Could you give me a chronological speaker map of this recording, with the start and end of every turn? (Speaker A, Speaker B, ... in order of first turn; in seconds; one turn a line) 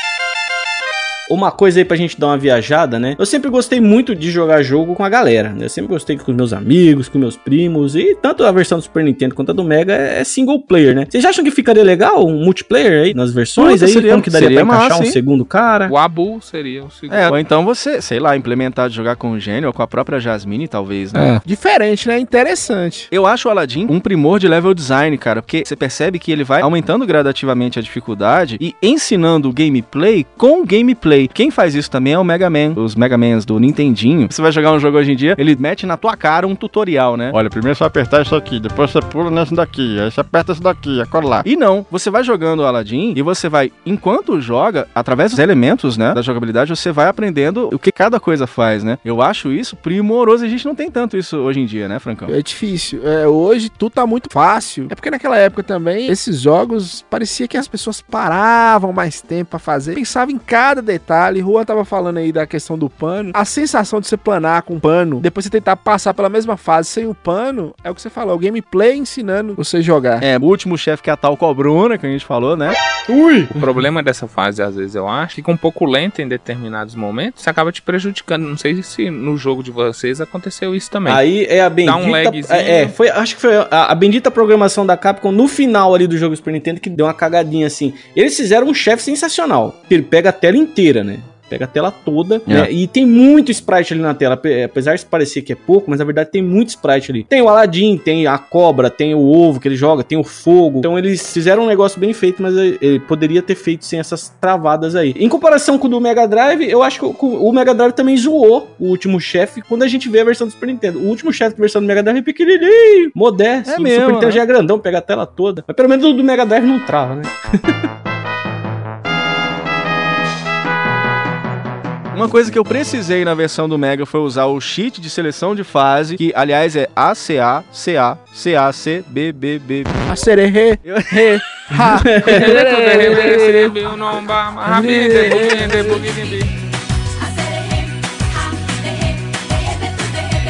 Speaker A: 1.3-15.9
Speaker B: 13.6-15.2
Speaker C: 15.9-17.4
Speaker B: 17.1-21.4
Speaker D: 21.1-23.1
Speaker B: 23.1-37.4
Speaker E: 37.3-41.5
Speaker B: 41.4-52.3
Speaker D: 52.3-70.2
Speaker B: 70.2-72.8
Speaker A: 73.1-73.7
Speaker C: 73.5-81.2
Speaker A: 81.0-117.7
Speaker C: 81.8-82.9
Speaker B: 113.6-114.4
Speaker B: 122.1-130.0
Speaker D: 130.1-130.8
Speaker B: 130.8-131.4
Speaker D: 131.7-133.7
Speaker A: 131.8-133.4
Speaker C: 132.3-136.5
Speaker D: 134.7-135.7